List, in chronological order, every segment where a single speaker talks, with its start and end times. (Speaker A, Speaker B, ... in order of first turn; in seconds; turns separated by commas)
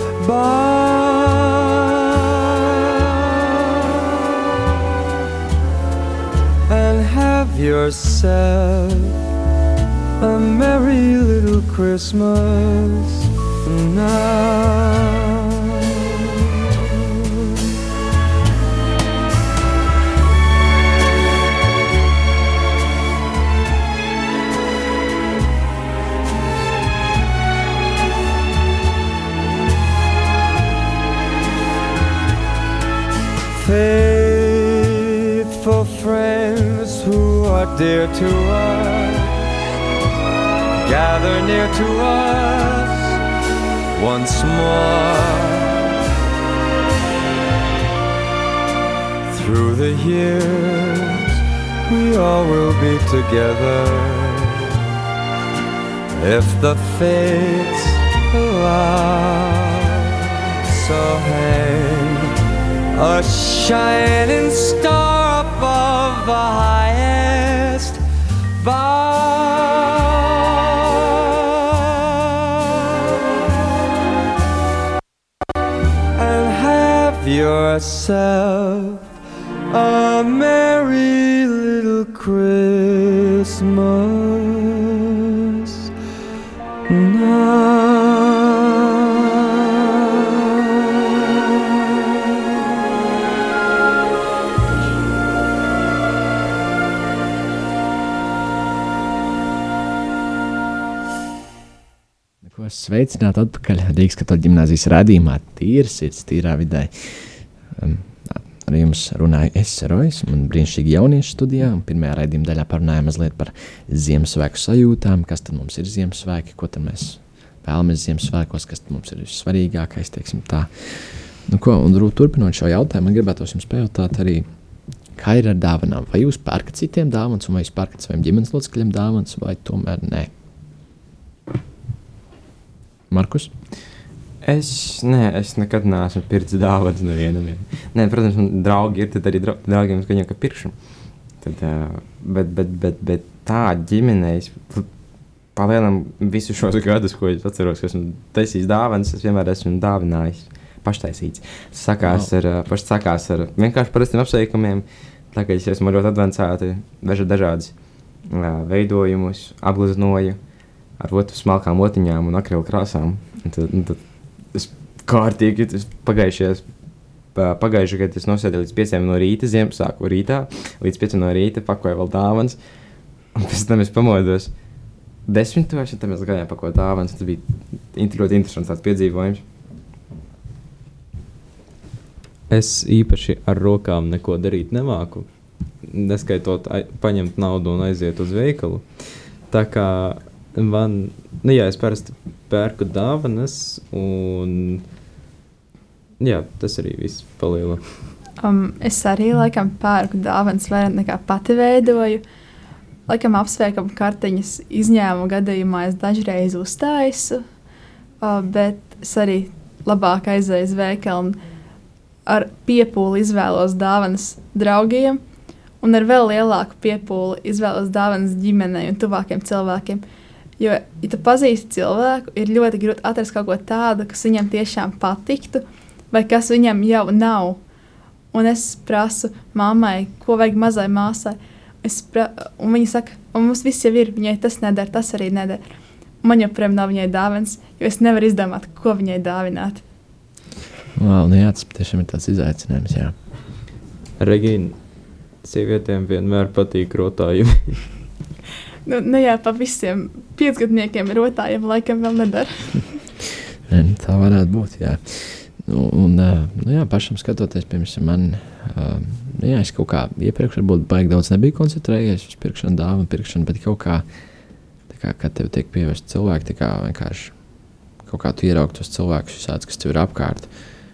Speaker A: 0.2-4.6, Speaker A: 6.7-9.2, Speaker A: 10.2-17.3, Speaker A: 33.5-39.4, Speaker A: 40.8-43.2, Speaker A: 44.0-45.8, Speaker A: 49.3-54.8, Speaker A: 56.1-62.3, Speaker A: 62.9-68.0, Speaker A: 68.6-73.0, Speaker A: 76.2-79.1, Speaker A: 79.7-85.9, Speaker A: 86.9-90.8, Speaker B: 102.4-124.5, Speaker B: 125.2-130.3, Speaker B: 133.1-133.5, Speaker C: 134.4-140.7, Speaker C: 141.4-144.9, Speaker C: 145.6-157.7, Speaker B: 152.0-152.3, Speaker C: 158.3-160.4, Speaker C: 161.0-164.0, Speaker C: 164.5-166.7, Speaker C: 167.3-172.6, Speaker C: 173.3-174.5, Speaker C: 175.3-179.4, Speaker D: 182.5-185.3, Speaker D: 185.8-194.8, Speaker D: 196.2-197.8, Speaker E: 198.4-202.2, Speaker E: 203.1-207.4, Speaker E: 208.2-211.4, Speaker E: 212.3-215.2, Speaker E: 215.8-220.0, Speaker E: 220.6-227.6, Speaker E: 228.3-235.6, Speaker E: 236.2-239.8, Speaker B: 241.0-243.1, Speaker D: 244.2-244.8, Speaker D: 245.4-247.8, Speaker E: 248.9-252.9, Speaker B: 253.7-264.1, Speaker B: 264.9-267.4, Speaker B: 268.0-270.5